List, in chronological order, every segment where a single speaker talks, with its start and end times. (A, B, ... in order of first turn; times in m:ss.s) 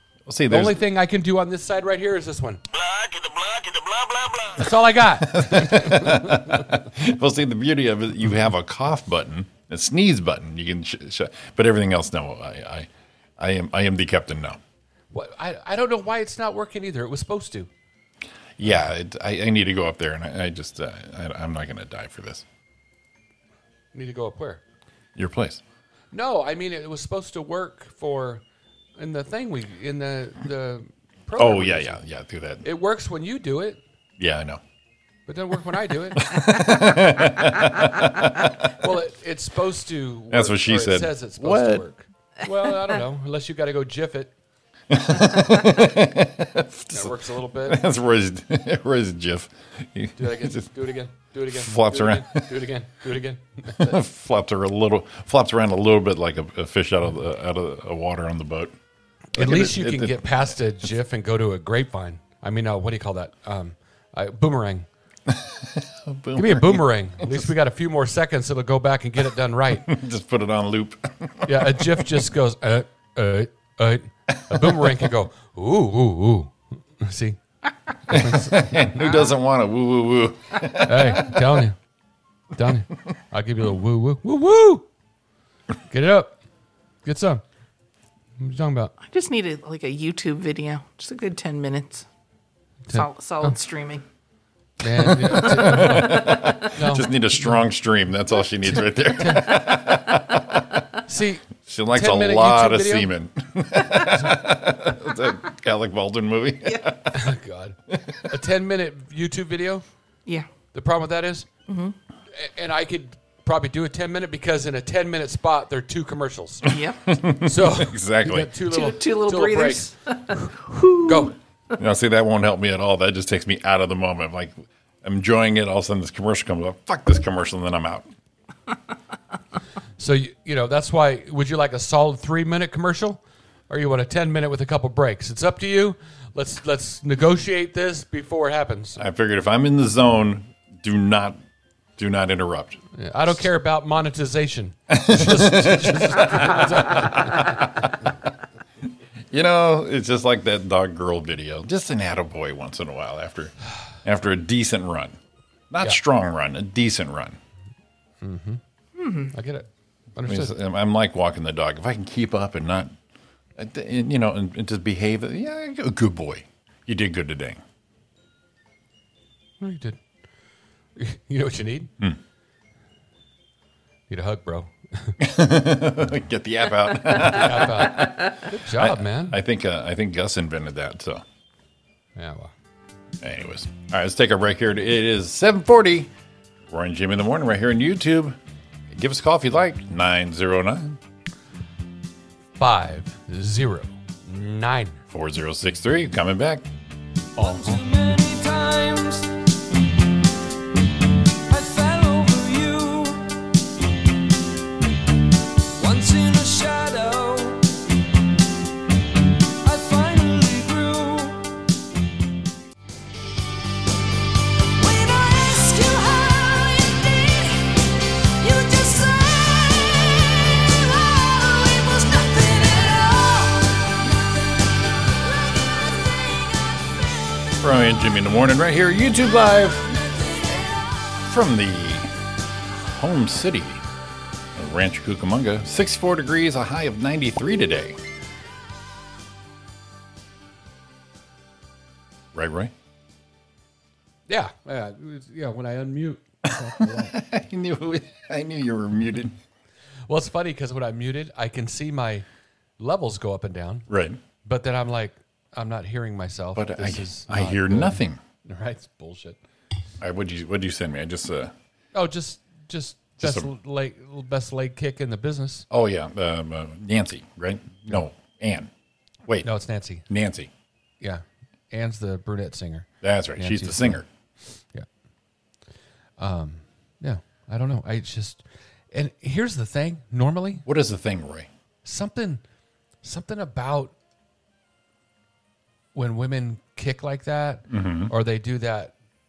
0:00.3-0:00.8 A
0:00.5-0:02.6 B
0:02.9-0:14.6 A
0:04.5-0:06.8 B
0:15.1-0:17.7 B
0:18.6-0:22.4 A
0:23.9-0:24.6 B
0:25.2-0:25.6 A
0:26.1-0:28.4 B
0:29.0-0:32.0 B
0:31.4-0:32.6 A
0:32.6-0:33.8 B
0:34.2-0:34.6 A
0:35.3-0:36.4 B
0:36.1-0:38.7 A
0:38.7-0:44.3 B
0:40.3-0:41.8 A
0:44.9-0:50.7 A
0:46.9-0:47.8 B
0:50.2-0:54.0 B
0:51.5-0:52.6 A
0:53.7-0:58.7 A
0:59.4-1:04.9 B
0:59.4-1:00.2 A
1:05.3-1:07.5 A
1:06.4-1:09.9 B
1:09.8-1:12.1 A
1:11.4-1:17.4 B
1:14.5-1:15.1 A
1:18.0-1:19.2 B
1:18.1-1:21.6 A
1:20.8-1:21.8 B
1:22.6-1:24.9 B
1:25.9-1:26.4 B
1:27.0-1:27.4 B
1:28.4-1:28.9 B
1:29.0-1:32.0 C
1:32.9-1:33.6 B
1:32.9-1:34.0 C
1:34.8-1:37.6 B
1:34.9-1:40.8 A
1:35.8-1:36.4 C
1:38.7-1:39.5 B
1:41.0-1:43.1 B
1:41.6-1:47.3 A
1:46.6-1:46.9 C
1:47.1-1:49.8 B
1:47.9-1:48.2 A
1:50.7-1:51.5 B
1:51.7-1:52.0 C
1:52.4-1:56.7 B
1:56.7-1:57.0 C
1:56.7-1:58.5 A
1:57.4-2:01.3 B
1:58.7-2:01.3 C
2:01.8-2:08.1 A
2:10.0-2:19.0 B
2:19.0-2:21.4 A
2:22.0-2:22.8 A
2:22.9-2:27.9 B
2:24.9-2:28.1 A
2:29.3-2:35.2 A
2:35.7-2:37.4 A
2:38.2-2:38.6 B
2:39.0-2:39.3 C
2:39.3-2:40.6 B
2:40.2-2:42.9 A
2:43.6-2:47.6 A
2:49.6-2:50.0 B
2:51.0-2:51.9 B
2:54.1-2:55.2 B
2:55.2-3:01.2 A
2:57.2-2:59.4 B
3:02.2-3:02.5 B
3:03.2-3:06.1 A
3:06.7-3:08.4 A
3:08.9-3:11.0 A
3:12.6-3:15.0 B
3:15.1-3:16.6 A
3:17.4-3:17.9 B
3:17.4-3:19.3 D
3:21.5-3:23.4 D
3:25.8-3:27.7 D
3:29.6-3:31.6 D
3:34.8-3:37.6 D
3:38.4-3:43.7 D
3:45.4-3:46.4 D
3:47.6-3:49.9 A
3:51.2-3:52.1 A
3:52.8-3:53.8 A
3:54.6-3:58.0 A
4:02.3-4:02.7 A
4:04.3-4:07.1 B
4:06.4-4:09.4 A
4:10.1-4:12.2 B
4:12.8-4:13.9 B
4:13.9-4:14.2 A
4:14.4-4:19.4 B
4:16.6-4:18.2 A
4:20.0-4:21.5 A
4:21.9-4:25.7 B
4:23.2-4:23.5 A
4:25.7-4:28.7 A
4:29.4-4:30.0 B
4:30.1-4:30.5 A
4:31.0-4:34.0 B
4:33.0-4:34.0 A
4:36.2-4:40.6 B
4:40.7-4:41.5 A
4:41.8-4:42.4 B
4:43.0-4:43.9 B
4:46.0-4:48.9 B
4:47.7-4:48.1 A